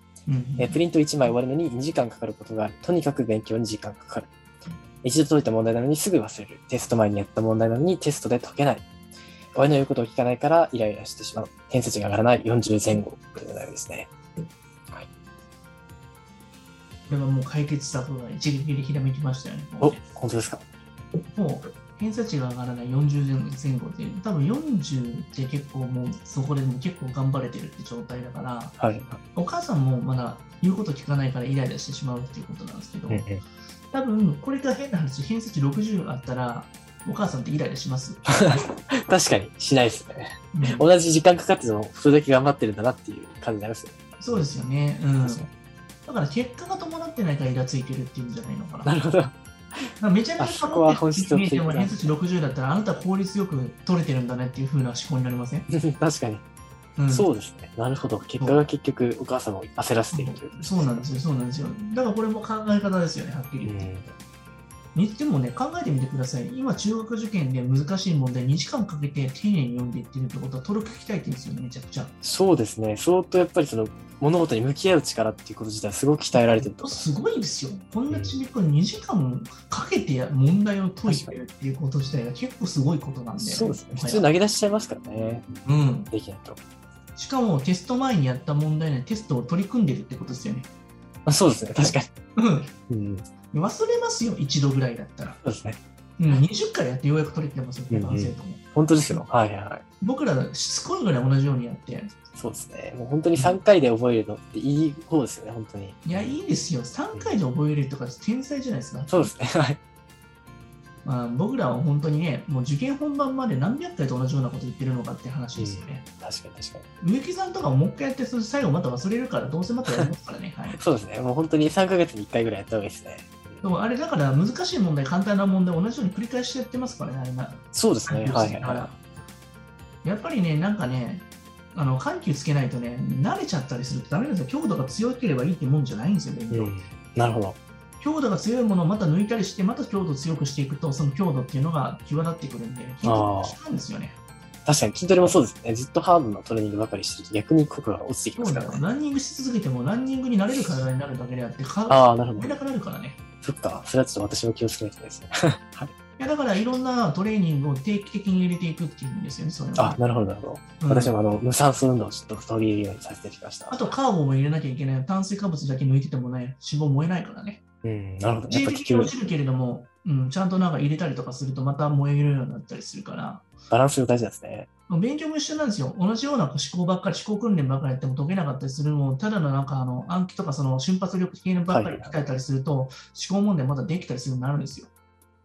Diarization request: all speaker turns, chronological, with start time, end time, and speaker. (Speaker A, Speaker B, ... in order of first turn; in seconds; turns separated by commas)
Speaker A: 0.3-0.8, Speaker B: 0.6-4.3, Speaker B: 5.0-8.9, Speaker B: 9.5-14.1, Speaker A: 17.1-20.0, Speaker B: 19.8-20.6, Speaker A: 21.3-28.8, Speaker B: 28.8-29.2, Speaker A: 29.3-33.2, Speaker B: 33.1-33.4, Speaker A: 33.9-38.2, Speaker B: 38.3-44.4, Speaker A: 40.5-40.9, Speaker A: 44.2-45.5, Speaker B: 45.2-45.5, Speaker A: 46.0-48.9, Speaker B: 48.8-49.8, Speaker A: 50.0-55.7, Speaker B: 50.4-52.2, Speaker B: 55.7-56.4, Speaker A: 57.0-57.3, Speaker B: 57.1-61.1, Speaker A: 60.1-63.9, Speaker B: 63.6-64.2, Speaker A: 64.9-72.1, Speaker B: 72.2-77.1, Speaker A: 76.3-84.2, Speaker B: 78.1-78.4, Speaker B: 81.0-81.3, Speaker B: 83.4-85.5, Speaker A: 85.6-86.1, Speaker B: 86.1-86.6, Speaker A: 87.2-90.7, Speaker B: 91.2-92.1, Speaker A: 92.3-92.7, Speaker B: 92.9-93.2, Speaker A: 93.5-95.4, Speaker B: 95.4-95.8, Speaker A: 96.2-98.6, Speaker B: 97.9-99.8, Speaker A: 100.0-102.1, Speaker B: 102.3-106.3, Speaker A: 103.3-103.6, Speaker A: 106.0-109.3, Speaker B: 107.1-107.4, Speaker B: 109.1-109.8, Speaker A: 111.0-116.0, Speaker B: 115.5-116.9, Speaker A: 117.0-120.8, Speaker B: 120.7-123.7, Speaker A: 123.6-129.0, Speaker B: 127.7-128.8, Speaker A: 130.0-136.7, Speaker B: 136.5-137.6, Speaker A: 138.0-144.2, Speaker B: 143.0-143.6, Speaker B: 144.7-148.8, Speaker A: 148.4-153.2, Speaker B: 151.9-152.5, Speaker B: 153.4-155.9, Speaker A: 156.2-160.0, Speaker B: 159.8-163.8, Speaker A: 160.8-161.1, Speaker A: 163.7-167.6, Speaker B: 167.8-169.2, Speaker A: 168.5-173.5, Speaker B: 173.7-174.7, Speaker A: 174.9-184.9, Speaker B: 181.7-182.1